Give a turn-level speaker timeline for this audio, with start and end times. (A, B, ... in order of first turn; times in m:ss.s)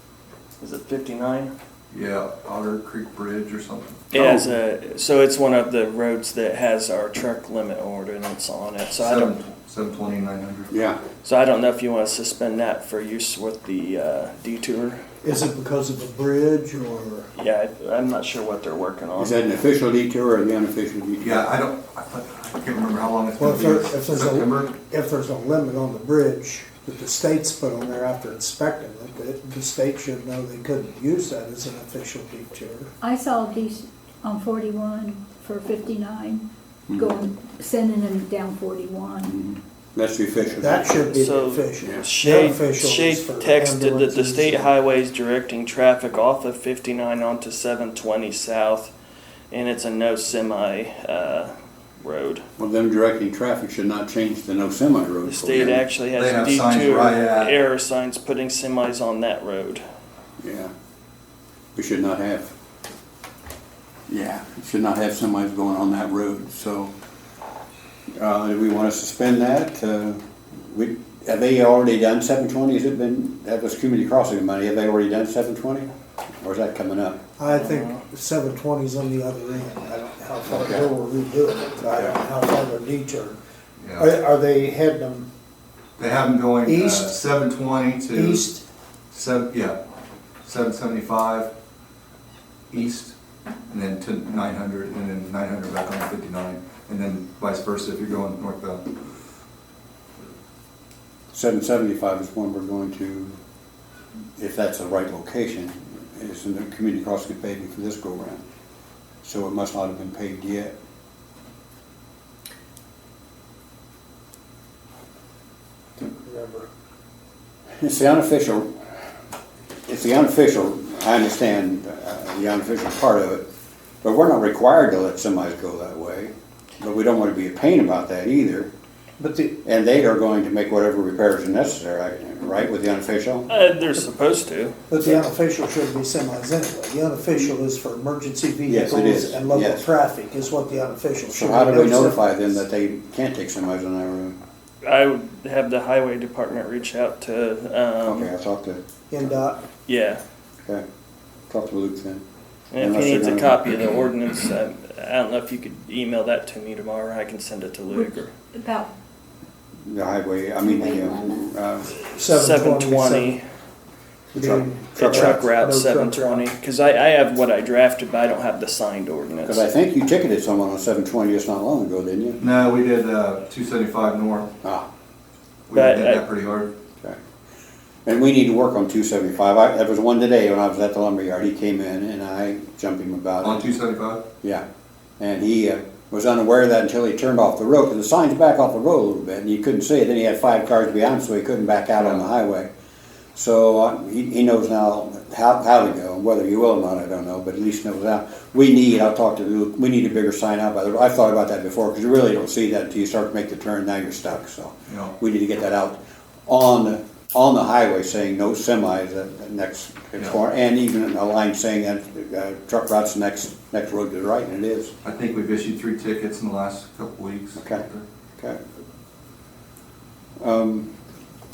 0:00.6-0:01.5 A
0:01.9-0:04.5 B
0:04.1-0:09.3 A
0:09.0-0:10.7 B
0:10.7-0:11.0 C
0:11.2-0:15.0 A
0:15.2-0:17.3 D
0:17.4-0:19.4 A
0:19.2-0:21.5 C
0:21.2-0:24.8 B
0:23.4-0:32.9 D
0:33.0-0:39.4 E
0:36.9-0:37.2 C
0:39.2-0:41.0 C
0:40.6-0:44.7 D
0:41.1-0:48.9 A
0:41.8-0:42.1 C
0:49.5-0:52.4 A
0:52.6-0:55.8 C
0:55.2-0:59.8 A
0:56.1-0:57.6 B
1:00.4-1:00.7 C
1:01.8-1:02.5 C
1:04.1-1:06.9 C
1:08.2-1:15.9 C
1:16.4-1:17.2 C
1:17.4-1:23.4 D
1:17.5-1:18.0 A
1:20.5-1:20.9 C
1:23.8-1:24.1 B
1:24.0-1:25.3 D
1:26.0-1:28.5 B
1:26.6-1:27.2 D
1:28.1-1:28.6 D
1:29.1-1:29.8 B
1:30.4-1:31.5 B
1:32.7-1:33.1 B
1:33.7-1:38.8 B
1:41.3-1:43.4 C
1:44.4-1:48.4 C
1:49.2-1:50.8 C
1:56.0-1:56.7 D
1:57.8-1:58.7 C
1:59.9-2:03.5 C
2:04.0-2:08.7 C
2:09.2-2:09.6 D
2:09.6-2:13.5 C
2:13.5-2:14.8 A
2:14.9-2:22.2 D
2:18.7-2:19.8 C
2:21.3-2:24.4 C
2:24.8-2:28.3 A
2:28.0-2:28.8 C
2:29.1-2:29.6 D
2:29.9-2:30.2 A
2:31.5-2:32.2 C
2:32.7-2:38.3 A
2:32.8-2:33.7 C
2:37.9-2:38.9 E
2:39.9-2:41.9 C
2:40.6-2:41.5 E
2:42.2-2:43.4 D
2:42.2-2:43.4 A
2:44.3-2:46.5 D
2:44.4-2:45.4 C
2:45.0-2:49.6 A
2:49.4-2:52.4 C
2:52.4-2:54.5 B
2:55.7-2:56.7 B
2:55.7-2:56.2 A
2:58.1-3:03.8 C
3:03.4-3:04.2 B
3:05.2-3:12.7 C
3:12.0-3:12.2 B
3:13.4-3:34.9 C
3:24.9-3:25.1 B
3:35.0-3:38.1 B
3:37.6-3:37.9 C
3:40.4-3:40.9 C